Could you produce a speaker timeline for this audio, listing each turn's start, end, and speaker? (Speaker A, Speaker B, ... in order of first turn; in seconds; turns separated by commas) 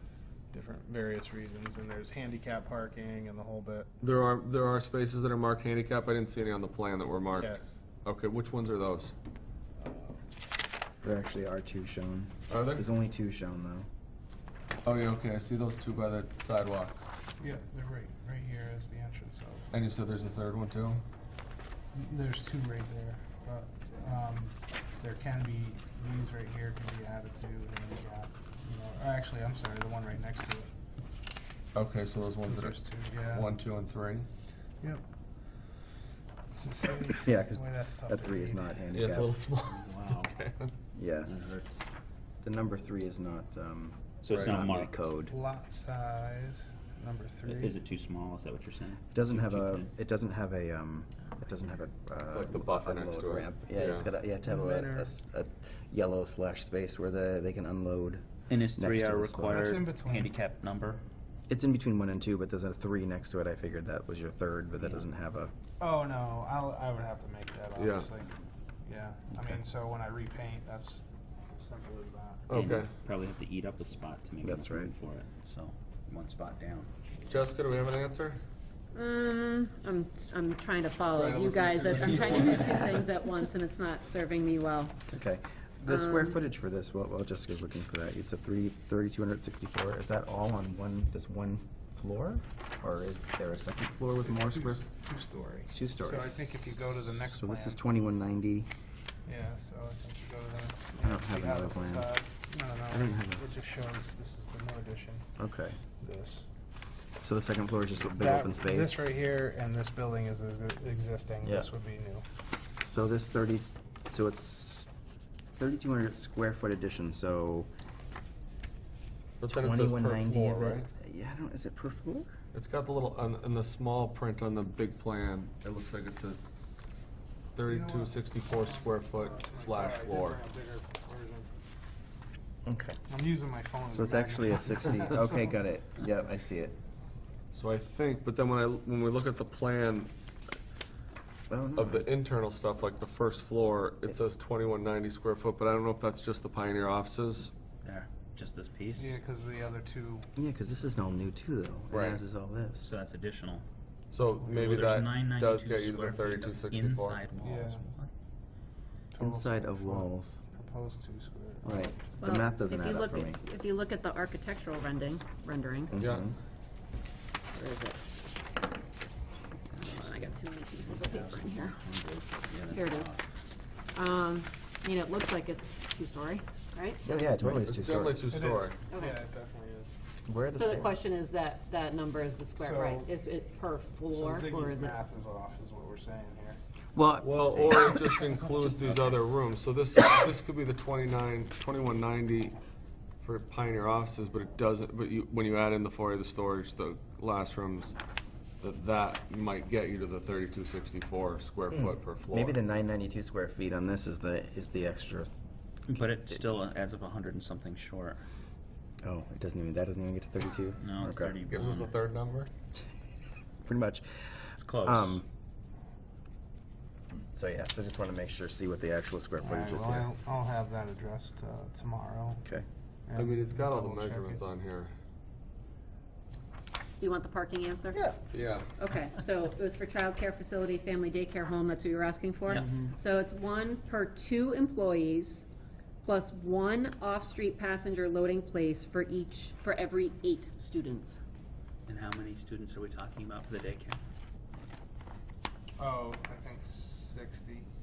Speaker A: 0.5-3.9, Speaker B: 4.0-9.1, Speaker A: 7.3-7.7, Speaker A: 9.8-10.2, Speaker C: 11.0-13.9, Speaker B: 12.5-12.8, Speaker B: 14.8-17.0, Speaker A: 17.4-19.7, Speaker B: 19.7-21.0, Speaker A: 21.9-30.7, Speaker B: 31.7-34.3, Speaker A: 32.5-33.5, Speaker A: 36.5-38.7, Speaker C: 37.2-39.3, Speaker B: 38.9-40.7, Speaker D: 39.7-40.3, Speaker C: 40.9-41.3, Speaker D: 41.2-41.8, Speaker C: 42.4-45.4, Speaker D: 44.2-44.9, Speaker B: 44.3-44.5, Speaker A: 45.3-47.8, Speaker D: 47.4-49.9, Speaker C: 49.1-59.8, Speaker B: 52.3-54.1, Speaker A: 54.4-55.1, Speaker D: 58.5-61.0, Speaker A: 59.5-60.3, Speaker C: 61.5-65.5, Speaker D: 64.8-65.0, Speaker A: 65.8-68.3, Speaker B: 67.8-68.1, Speaker A: 68.8-72.4, Speaker B: 72.5-72.9, Speaker D: 72.5-76.9, Speaker C: 74.4-74.9, Speaker B: 77.3-78.4, Speaker E: 78.9-84.9, Speaker B: 81.1-83.0, Speaker C: 85.1-94.8, Speaker E: 85.8-86.4, Speaker A: 94.2-97.8, Speaker C: 95.7-98.7, Speaker A: 99.2-105.3, Speaker C: 101.0-102.1, Speaker C: 102.9-103.4, Speaker C: 105.4-105.8, Speaker A: 106.0-106.5, Speaker C: 107.2-109.2, Speaker A: 108.2-112.2, Speaker C: 111.4-111.7, Speaker C: 112.8-114.9, Speaker C: 115.6-117.7, Speaker B: 119.4-120.9, Speaker C: 119.5-122.3, Speaker B: 122.5-126.4, Speaker B: 127.5-130.4, Speaker A: 127.7-131.5, Speaker C: 132.6-133.0, Speaker A: 133.1-135.5, Speaker C: 133.9-136.8, Speaker B: 137.5-140.1, Speaker C: 141.5-142.1, Speaker B: 141.8-147.5, Speaker D: 147.8-149.2, Speaker A: 148.9-150.3, Speaker C: 150.3-153.0, Speaker B: 151.9-152.2, Speaker D: 152.8-153.6, Speaker B: 154.1-157.2, Speaker A: 154.4-154.9, Speaker D: 154.5-158.1, Speaker A: 157.4-157.8, Speaker A: 159.1-162.3, Speaker C: 159.2-160.4, Speaker C: 161.6-163.4, Speaker E: 162.2-165.9, Speaker C: 165.9-166.3, Speaker B: 166.0-166.3, Speaker E: 167.5-168.0, Speaker E: 169.7-171.8, Speaker D: 170.9-173.2, Speaker E: 172.7-173.2, Speaker E: 173.9-177.0, Speaker C: 177.0-178.4, Speaker B: 177.4-178.8, Speaker A: 178.3-179.9, Speaker E: 178.9-179.2, Speaker C: 180.2-180.9, Speaker E: 180.6-185.0, Speaker A: 182.6-183.1, Speaker A: 184.1-186.6, Speaker C: 186.9-188.1, Speaker B: 187.2-192.5, Speaker B: 193.2-197.9, Speaker B: 198.6-202.7, Speaker C: 201.7-205.3, Speaker D: 205.9-208.2, Speaker C: 209.0-211.3, Speaker D: 210.8-211.9, Speaker B: 211.4-212.5, Speaker C: 213.6-215.3, Speaker D: 214.6-215.2, Speaker C: 217.3-220.1, Speaker A: 219.4-222.4, Speaker A: 223.1-224.4, Speaker B: 223.1-224.9, Speaker E: 226.9-228.1, Speaker B: 228.3-228.7, Speaker E: 228.8-235.4, Speaker D: 232.5-232.8, Speaker C: 232.5-232.9, Speaker E: 236.0-241.2, Speaker D: 241.8-244.0, Speaker A: 245.8-247.7